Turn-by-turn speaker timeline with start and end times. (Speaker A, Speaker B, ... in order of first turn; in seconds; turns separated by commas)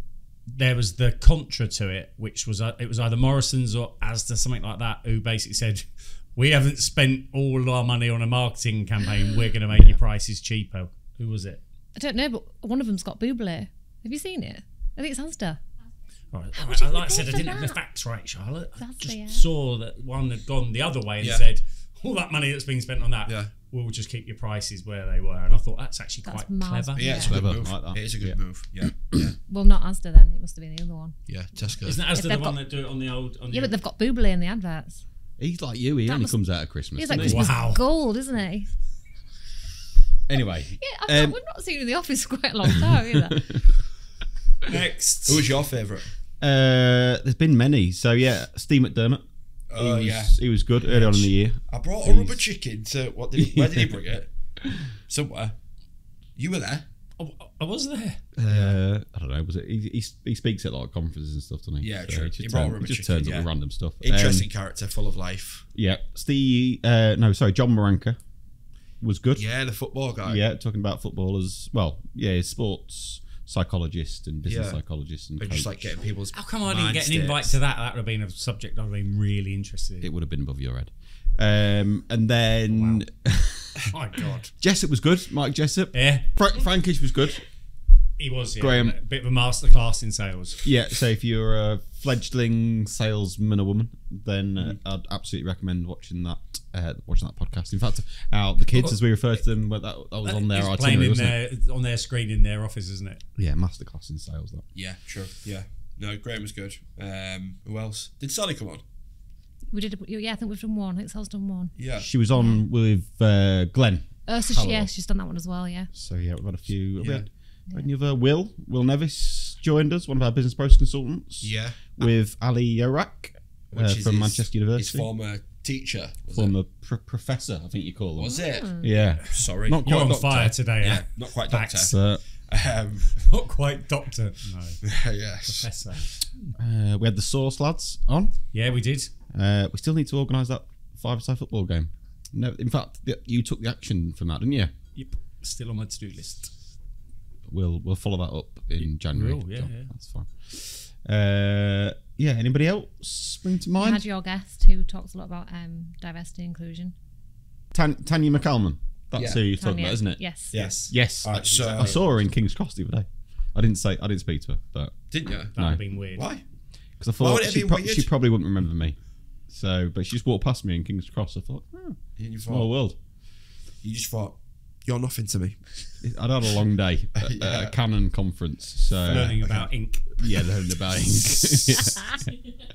Speaker A: 0.5-11.6, Speaker B: 9.7-10.0, Speaker C: 11.9-15.6, Speaker A: 16.3-27.0, Speaker C: 16.5-17.8, Speaker C: 18.8-19.4, Speaker D: 21.2-21.4, Speaker D: 23.2-23.5, Speaker C: 26.2-27.3, Speaker D: 26.9-29.4, Speaker B: 27.1-29.3, Speaker C: 29.5-31.1, Speaker D: 31.3-32.1, Speaker A: 31.8-33.8, Speaker C: 32.1-32.6, Speaker C: 33.5-35.0, Speaker B: 35.4-37.6, Speaker C: 36.0-36.4, Speaker C: 36.9-38.7, Speaker A: 37.1-37.8, Speaker B: 40.3-41.4, Speaker C: 40.8-43.5, Speaker B: 42.7-43.6, Speaker A: 44.7-45.6, Speaker D: 45.2-46.1, Speaker B: 46.4-52.4, Speaker D: 49.7-54.3, Speaker B: 53.4-54.0, Speaker D: 55.1-55.5, Speaker D: 56.4-56.8, Speaker A: 57.2-58.6, Speaker B: 58.4-64.5, Speaker D: 61.8-63.5, Speaker D: 64.0-65.7, Speaker B: 65.7-68.2, Speaker B: 69.0-69.5, Speaker D: 69.3-70.4, Speaker B: 70.2-75.9, Speaker D: 74.5-74.8, Speaker D: 75.4-77.6, Speaker A: 76.3-80.1, Speaker B: 80.0-83.9, Speaker A: 82.7-83.0, Speaker A: 83.9-84.5, Speaker B: 84.6-87.4, Speaker A: 85.9-86.7, Speaker A: 88.2-90.7, Speaker B: 88.5-89.0, Speaker B: 90.6-101.4, Speaker A: 100.2-103.2, Speaker B: 103.4-104.6, Speaker D: 104.7-108.8, Speaker C: 109.7-111.7, Speaker D: 111.8-112.1, Speaker B: 112.0-114.9, Speaker C: 112.3-112.6, Speaker C: 114.2-115.9, Speaker B: 115.9-125.1, Speaker D: 117.0-117.2, Speaker D: 121.4-121.8, Speaker D: 123.7-126.5, Speaker B: 126.3-130.6, Speaker D: 128.2-133.2, Speaker C: 128.2-128.9, Speaker A: 129.2-131.9, Speaker B: 131.8-132.2, Speaker A: 133.2-134.8, Speaker D: 134.8-135.7, Speaker A: 135.4-136.6, Speaker B: 136.6-138.3, Speaker A: 138.5-139.1, Speaker B: 139.3-144.7, Speaker A: 144.9-146.5, Speaker B: 147.5-154.0, Speaker A: 148.8-149.9, Speaker C: 153.8-156.9, Speaker B: 157.7-165.8, Speaker D: 159.2-159.4, Speaker C: 159.6-160.5, Speaker D: 160.5-162.0, Speaker A: 160.6-162.2, Speaker D: 165.1-165.6, Speaker A: 165.5-166.3, Speaker D: 166.1-166.4, Speaker B: 167.0-168.9, Speaker D: 167.2-168.1, Speaker B: 169.5-173.0, Speaker D: 172.2-172.7, Speaker D: 173.8-175.8, Speaker B: 176.0-179.5, Speaker D: 177.2-177.8, Speaker D: 179.0-179.7, Speaker A: 179.0-180.1, Speaker B: 180.2-182.3